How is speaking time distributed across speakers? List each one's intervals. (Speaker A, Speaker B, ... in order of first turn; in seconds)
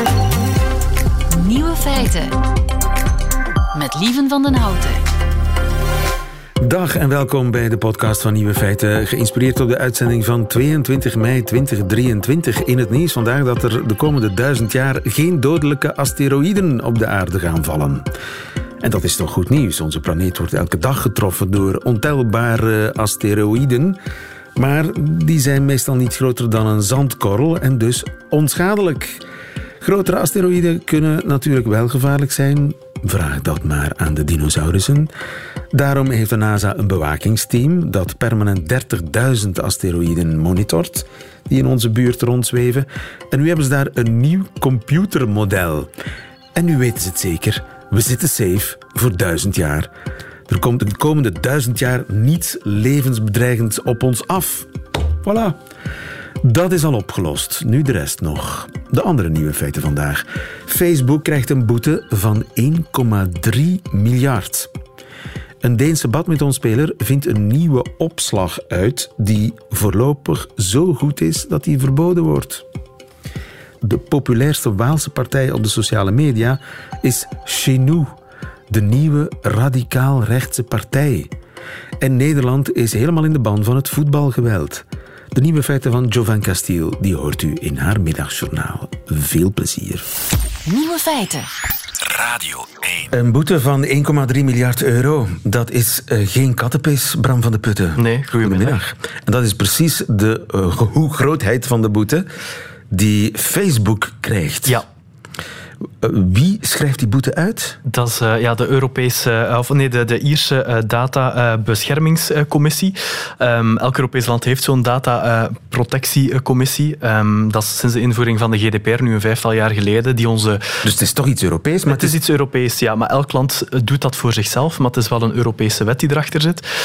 Speaker A: 1.3-2.3, 3.7-5.0, 90.7-91.5
Speaker B: 6.6-18.1, 18.8-24.0, 24.5-29.2, 29.8-35.1, 35.7-45.9, 46.5-49.9, 50.5-54.7, 55.2-55.6, 56.4-64.7, 65.6-72.6, 73.8-78.2, 78.7-81.3, 82.0-90.1, 93.1-102.3, 102.9-104.8, 106.0-107.8, 120.8-122.2
Speaker C: 98.0-98.8, 107.8-120.6, 121.8-126.6